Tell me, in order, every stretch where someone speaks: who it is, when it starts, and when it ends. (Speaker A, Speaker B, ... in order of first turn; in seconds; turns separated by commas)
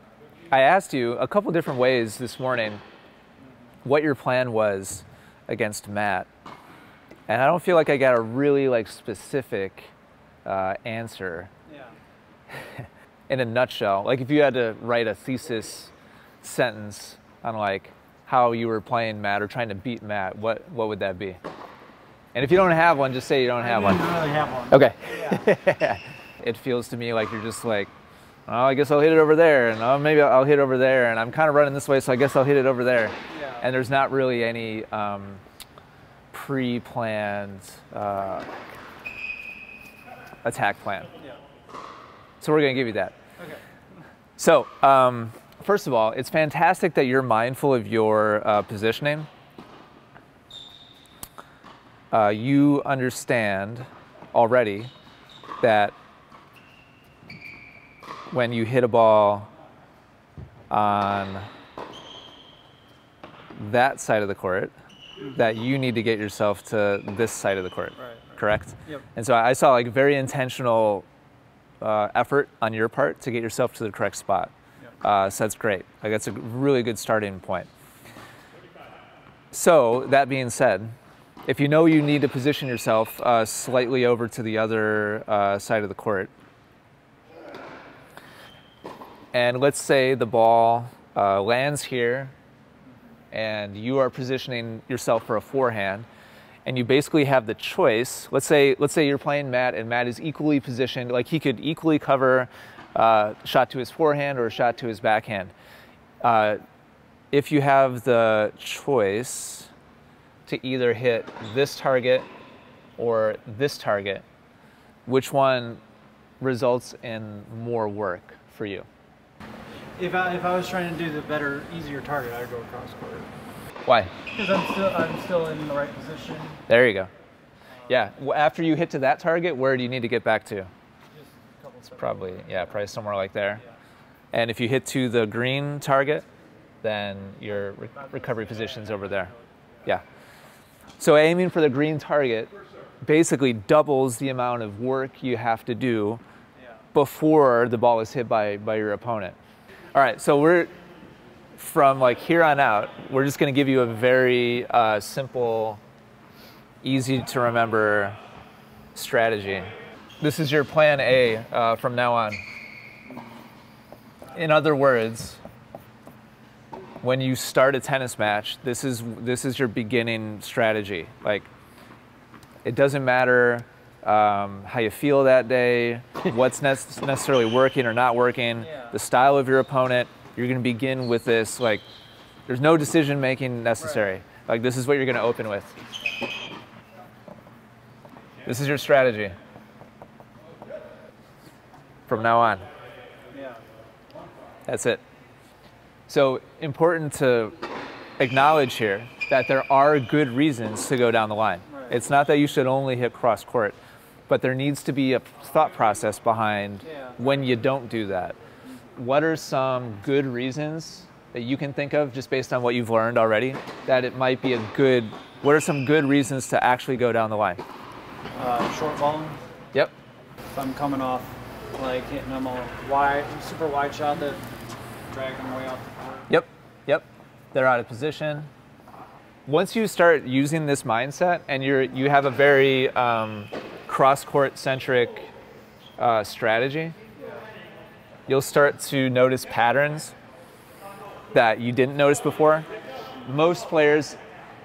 Speaker A: 0.5-2.8, Speaker A: 3.8-6.3, Speaker A: 7.3-9.9, Speaker A: 10.4-11.5, Speaker B: 11.7-11.9, Speaker A: 12.5-15.9, Speaker A: 16.4-21.4, Speaker A: 22.3-24.1, Speaker B: 23.6-25.4, Speaker A: 24.7-27.9, Speaker A: 28.5-35.4, Speaker B: 33.3-33.6, Speaker A: 36.3-38.5, Speaker A: 40.4-41.1, Speaker A: 42.4-43.1, Speaker A: 44.4-49.3, Speaker A: 52.1-54.9, Speaker A: 55.6-55.9, Speaker A: 58.3-59.5, Speaker A: 60.7-61.5, Speaker A: 63.5-64.7, Speaker A: 65.3-71.0, Speaker B: 68.0-69.0, Speaker A: 71.8-77.7, Speaker A: 79.5-80.9, Speaker A: 81.5-86.3, Speaker A: 89.3-92.3, Speaker A: 93.3-96.1, Speaker A: 96.6-105.5, Speaker A: 106.2-106.6, Speaker A: 107.3-109.7, Speaker A: 110.5-112.3, Speaker A: 113.0-114.2, Speaker A: 115.0-115.8, Speaker A: 116.4-118.9, Speaker B: 120.0-123.3, Speaker A: 123.8-124.1, Speaker B: 124.3-126.6, Speaker A: 126.7-127.1, Speaker A: 127.9-130.7, Speaker B: 131.1-132.8, Speaker A: 132.0-133.6, Speaker A: 134.3-136.2, Speaker A: 136.8-139.3, Speaker B: 137.8-139.4, Speaker A: 141.0-146.2, Speaker A: 146.9-149.3, Speaker A: 149.9-150.7, Speaker A: 151.5-155.8, Speaker A: 156.8-158.2, Speaker A: 158.9-159.7, Speaker A: 160.2-162.4, Speaker A: 164.3-165.4, Speaker A: 167.0-171.5, Speaker A: 172.6-181.8, Speaker B: 178.6-178.9, Speaker A: 182.5-185.8, Speaker B: 183.8-184.1, Speaker A: 188.4-189.3, Speaker A: 192.1-192.6, Speaker B: 193.3-193.6, Speaker A: 194.7-195.0, Speaker A: 196.1-197.5, Speaker A: 198.2-203.8, Speaker B: 201.7-202.0, Speaker A: 204.3-208.4, Speaker B: 206.8-207.2, Speaker A: 208.9-217.6, Speaker B: 218.3-219.4, Speaker B: 220.5-224.4, Speaker B: 225.1-226.3, Speaker A: 226.3-228.5, Speaker A: 229.5-235.3, Speaker A: 236.0-236.9, Speaker B: 237.2-237.4, Speaker A: 238.3-240.1, Speaker A: 241.3-242.7, Speaker A: 243.2-244.2